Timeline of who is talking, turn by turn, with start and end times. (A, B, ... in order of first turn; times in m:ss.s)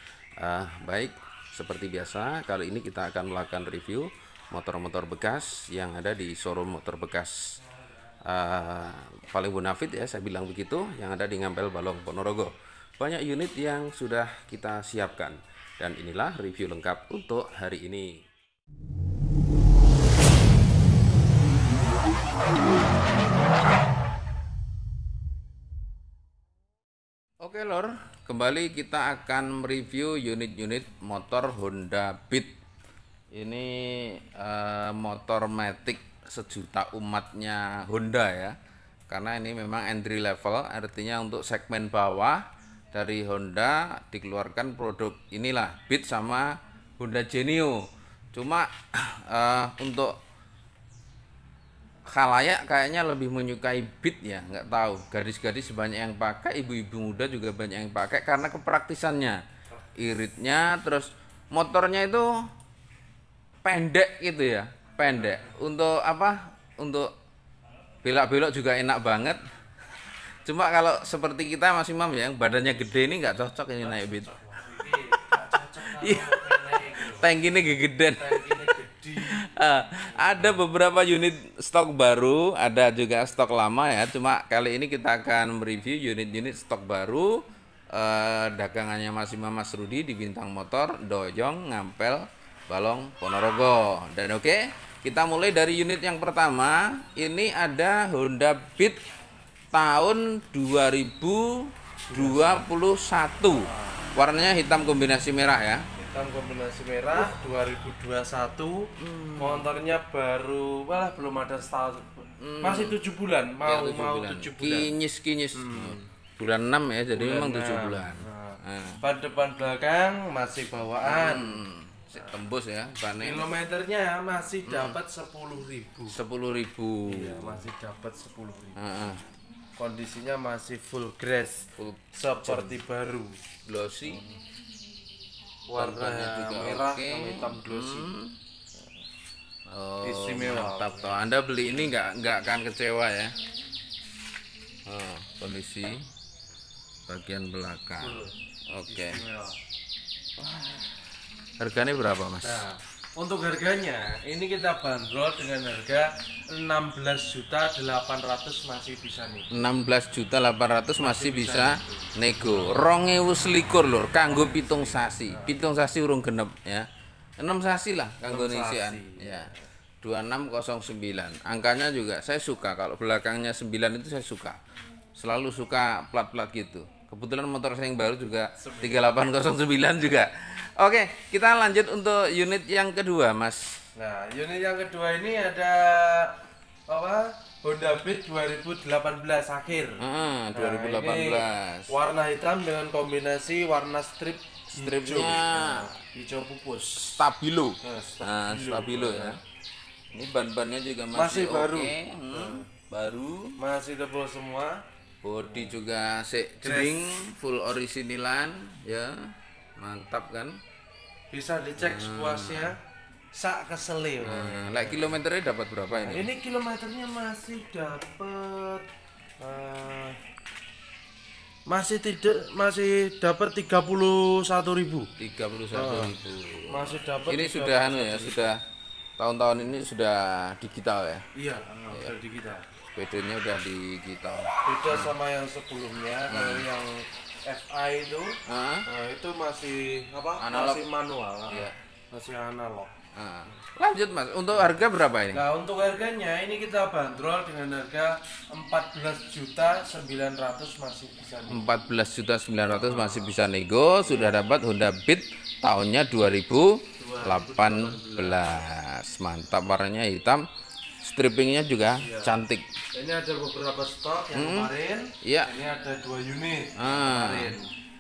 0:00.4-0:07.6 A
0:08.2-0:18.2 A
0:27.4-0:32.5 A
0:33.3-0:38.6 A
0:39.1-0:50.1 A
0:52.1-0:59.4 A
1:00.0-1:02.3 A
1:03.6-1:07.1 A
1:08.0-1:09.4 A
1:10.4-1:14.4 A
1:13.8-1:17.3 B
1:15.7-1:39.0 A
1:18.2-1:19.4 B
1:20.1-1:20.6 B
1:39.7-1:45.9 A
1:42.1-1:42.7 B
1:43.6-1:44.0 B
1:46.0-1:54.9 B
1:49.0-1:49.6 A
1:52.4-1:53.0 A
1:53.6-1:59.0 A
1:55.6-1:56.1 B
1:57.1-2:01.6 B
2:01.0-2:03.5 A
2:03.2-2:06.2 B
2:04.6-2:05.0 A
2:06.1-2:07.7 A
2:07.1-2:08.8 B
2:08.8-2:09.2 A
2:09.8-2:13.4 B
2:11.8-2:12.7 A
2:13.6-2:14.2 A
2:15.7-2:18.1 B
2:15.8-2:18.4 A
2:19.7-2:23.4 A
2:20.0-2:21.1 B
2:24.9-2:26.1 A
2:27.1-2:29.2 A
2:28.0-2:28.3 B
2:28.9-2:29.6 B
2:30.4-2:30.9 A
2:31.6-2:32.6 A
2:32.4-2:39.5 B
2:39.5-2:46.9 A
2:41.0-2:42.8 B
2:44.3-2:45.6 B
2:47.4-2:49.5 A
2:48.3-2:49.6 B
2:50.0-2:54.6 A
2:55.2-3:03.8 A
2:58.6-2:59.0 B
3:04.0-3:10.0 B
3:10.0-3:11.9 A
3:10.5-3:17.2 B
3:14.7-3:15.9 A
3:17.0-3:19.4 A
3:17.8-3:19.4 B
3:20.1-3:23.6 A
3:21.1-3:22.7 B
3:23.6-3:24.8 B
3:25.2-3:30.6 A
3:25.5-3:25.7 B
3:26.6-3:27.1 B
3:31.3-3:32.8 B
3:31.8-3:32.7 A
3:33.4-3:35.2 B
3:34.2-3:36.3 A
3:36.0-3:38.9 B
3:39.4-3:40.2 B
3:41.7-3:45.1 B
3:45.2-3:48.6 A
3:45.7-3:46.1 B
3:46.7-3:48.5 B
3:49.2-3:51.2 A
3:51.4-3:52.6 B
3:52.9-3:55.1 A
3:54.6-3:58.4 B
3:56.3-3:56.6 A
3:58.5-3:58.9 A
3:58.9-4:02.9 B
4:00.4-4:00.8 A
4:01.5-4:01.8 A
4:03.2-4:05.4 A
4:05.3-4:11.6 B
4:11.5-4:20.4 A
4:12.7-4:13.3 B
4:14.1-4:14.4 B
4:17.0-4:18.6 B
4:21.0-4:22.7 A
4:22.0-4:22.3 B
4:22.9-4:27.7 B
4:24.3-4:24.7 A
4:25.2-4:25.5 A
4:26.8-4:27.5 A